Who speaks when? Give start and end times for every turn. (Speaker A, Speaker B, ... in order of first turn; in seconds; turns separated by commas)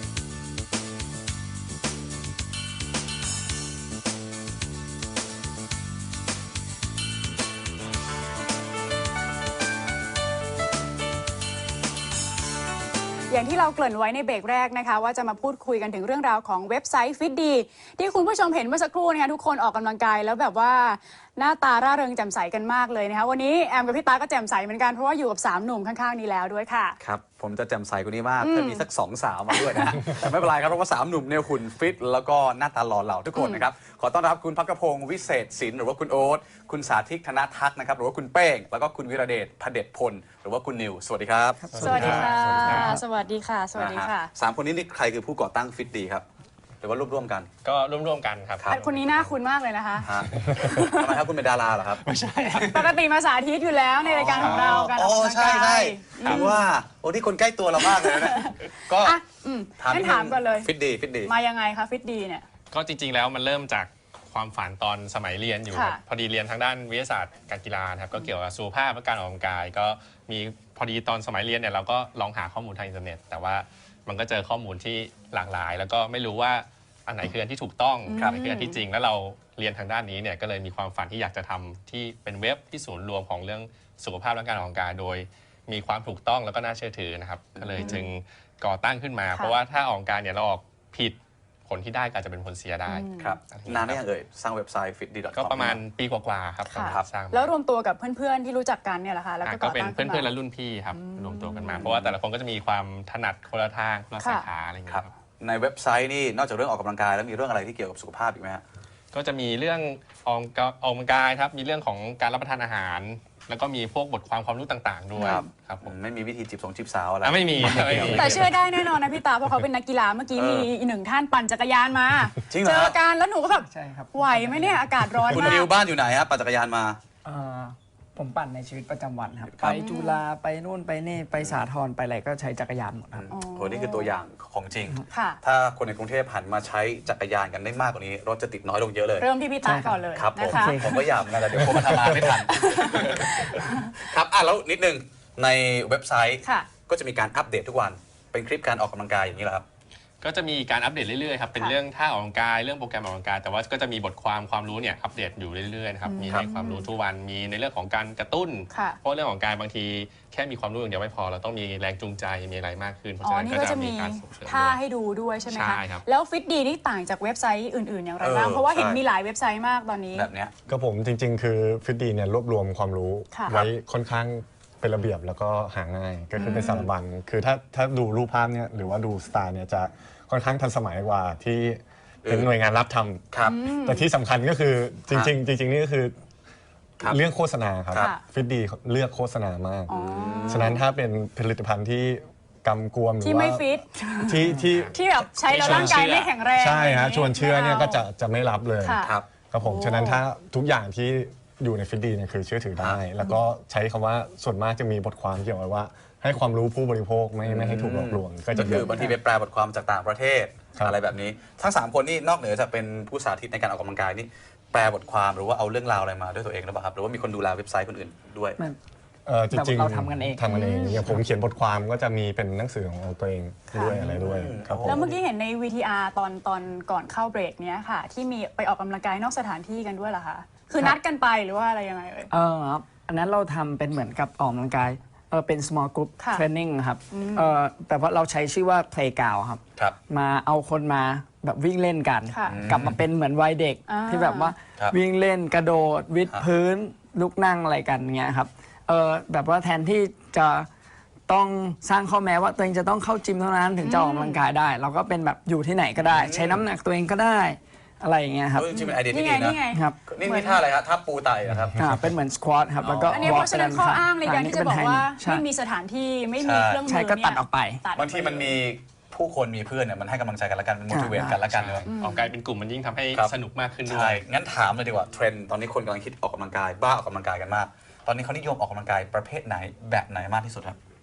Speaker A: 13.3-27.0, Speaker B: 27.0-42.2, Speaker A: 28.4-28.8, Speaker A: 29.5-30.1, Speaker A: 33.3-33.6, Speaker C: 41.7-43.0, Speaker D: 41.8-42.7, Speaker E: 41.8-42.9, Speaker A: 41.8-44.3, Speaker B: 43.7-46.2, Speaker B: 46.8-47.5, Speaker E: 47.6-49.3, Speaker A: 48.7-51.2, Speaker B: 50.0-52.0, Speaker E: 50.4-50.7, Speaker E: 52.0-53.0, Speaker A: 52.7-56.7, Speaker B: 54.0-59.2, Speaker E: 54.2-54.9, Speaker E: 56.2-56.5, Speaker A: 57.8-60.7, Speaker B: 59.8-61.3, Speaker A: 61.2-62.4, Speaker E: 62.7-91.2, Speaker A: 65.7-66.0, Speaker A: 78.1-78.8, Speaker B: 78.1-78.4, Speaker B: 87.5-88.1, Speaker A: 87.8-88.0, Speaker E: 91.7-94.0, Speaker A: 92.9-93.3, Speaker B: 93.2-95.8, Speaker E: 95.3-97.5, Speaker A: 96.7-100.3, Speaker B: 96.8-97.1, Speaker E: 99.4-105.1, Speaker A: 101.0-101.9, Speaker B: 101.7-102.2, Speaker A: 104.2-104.5, Speaker B: 104.9-108.6, Speaker E: 109.1-115.9, Speaker A: 115.1-115.5, Speaker B: 115.2-118.5, Speaker E: 117.2-118.5, Speaker A: 118.0-125.7, Speaker B: 120.3-120.7, Speaker B: 122.5-123.0, Speaker C: 123.7-125.2, Speaker B: 125.3-127.0, Speaker C: 127.2-133.2, Speaker A: 129.6-130.2, Speaker B: 133.1-139.3, Speaker A: 133.3-134.1, Speaker A: 135.1-135.4, Speaker A: 139.2-141.1, Speaker C: 139.6-141.1, Speaker B: 140.1-149.6, Speaker D: 141.7-142.4, Speaker A: 142.6-143.9, Speaker A: 146.4-146.7, Speaker E: 150.2-164.8, Speaker A: 156.1-156.9, Speaker A: 158.7-159.0, Speaker A: 163.2-170.3, Speaker E: 165.4-166.0, Speaker B: 168.2-169.0, Speaker B: 170.1-170.5, Speaker D: 170.7-186.1, Speaker A: 176.3-176.8, Speaker B: 176.4-176.9, Speaker B: 182.2-182.5, Speaker B: 183.3-183.6, Speaker A: 183.4-184.1, Speaker D: 187.0-189.9, Speaker A: 187.9-188.2, Speaker A: 189.9-190.8, Speaker B: 189.9-190.8, Speaker D: 190.4-193.7, Speaker A: 193.2-194.3, Speaker D: 194.2-195.0, Speaker C: 194.3-194.6, Speaker E: 194.7-196.3, Speaker A: 194.9-198.0, Speaker D: 195.6-195.9, Speaker D: 196.6-209.1, Speaker A: 198.8-200.2, Speaker B: 199.0-199.2, Speaker B: 207.4-218.6, Speaker A: 208.7-209.0, Speaker D: 219.2-225.1, Speaker C: 219.5-220.4, Speaker A: 220.4-221.0, Speaker C: 223.7-224.0, Speaker B: 223.8-225.2, Speaker A: 224.8-232.3, Speaker C: 232.3-250.7, Speaker A: 236.2-236.4, Speaker A: 237.1-237.5, Speaker A: 242.3-242.6, Speaker B: 242.4-243.0, Speaker A: 243.9-244.5, Speaker C: 251.3-258.7, Speaker A: 253.8-254.4, Speaker B: 256.0-256.6, Speaker B: 258.5-261.8, Speaker A: 258.7-260.6, Speaker C: 259.7-260.0, Speaker D: 261.6-262.0, Speaker C: 261.8-265.4, Speaker B: 262.8-263.5, Speaker A: 263.1-268.5, Speaker B: 266.4-266.8, Speaker C: 266.9-267.8, Speaker B: 267.9-271.9, Speaker C: 270.9-271.4, Speaker E: 271.5-274.2, Speaker A: 271.8-272.3, Speaker B: 273.9-280.8